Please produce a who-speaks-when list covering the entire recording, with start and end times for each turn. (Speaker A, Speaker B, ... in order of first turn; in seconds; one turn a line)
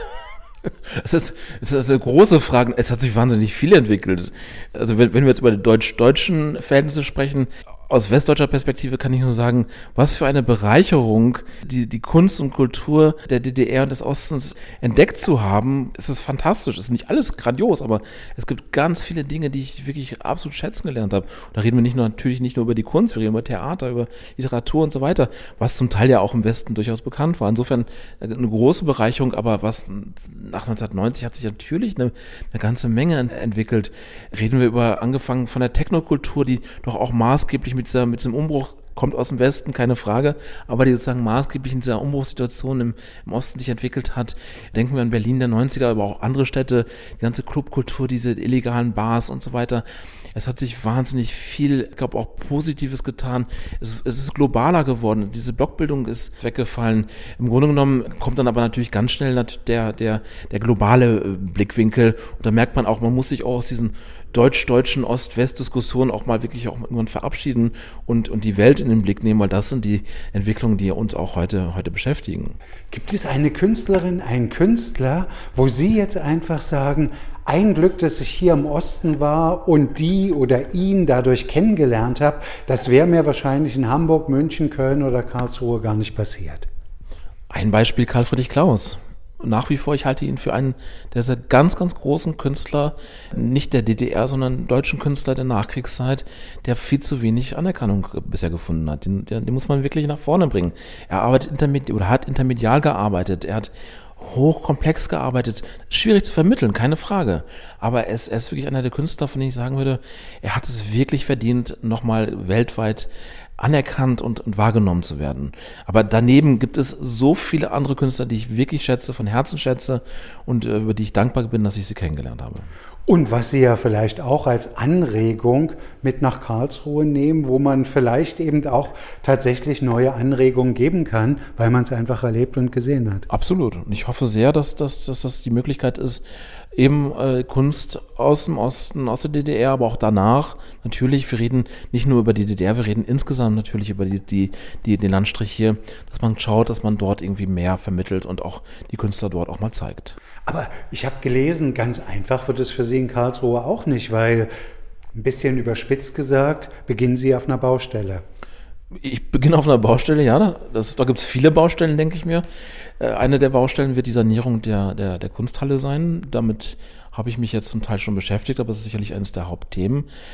Speaker A: 0.7-72.6
Speaker B: 72.9-86.7
Speaker A: 87.5-122.7
Speaker B: 123.1-133.3
Speaker A: 133.3-136.2
Speaker A: 136.8-150.2
Speaker B: 150.4-154.5
Speaker B: 155.2-158.2
Speaker A: 159.0-162.4
Speaker A: 163.0-170.1